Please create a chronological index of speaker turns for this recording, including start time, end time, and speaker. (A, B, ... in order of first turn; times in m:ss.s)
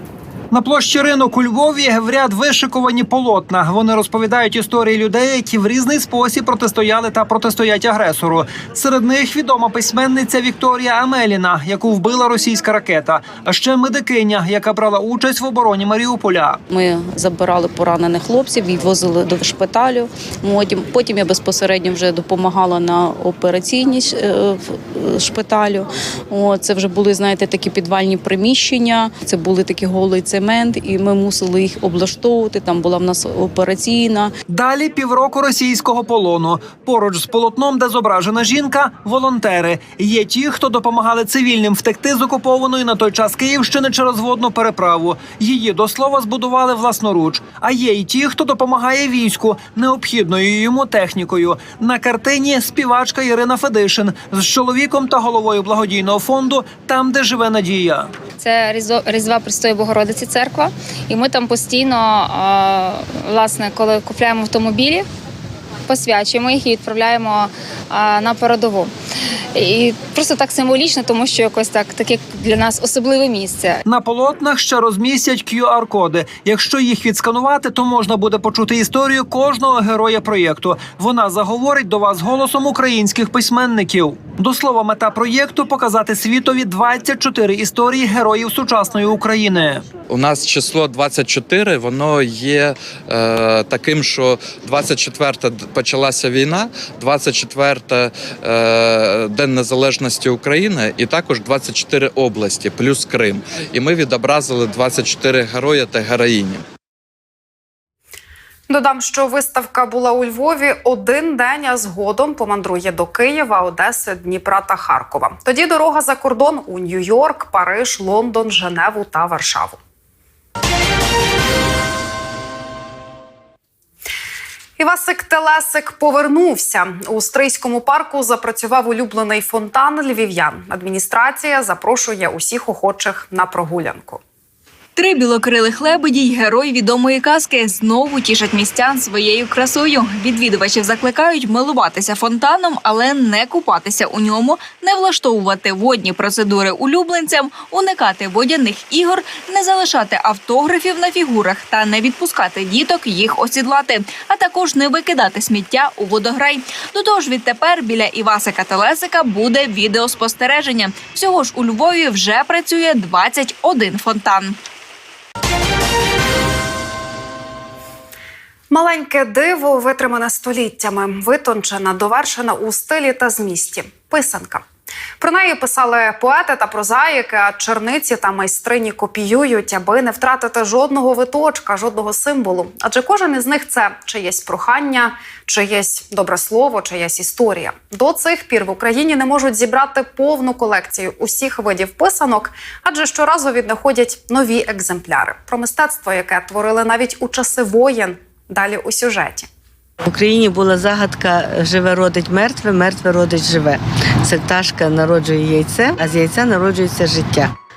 0:00.5-0:16.6 A
0:16.7-0:34.3 B
0:34.5-0:58.1 A
0:58.4-1:05.1 C
1:05.9-1:08.9 C
1:09.5-1:13.8 C
1:13.8-1:29.8 A
1:30.1-1:46.6 D
1:48.7-1:59.8 E
2:04.8-2:14.2 E
2:15.0-2:44.6 F
2:48.7-2:54.6 E
2:55.2-3:19.5 E
3:20.0-3:27.5 G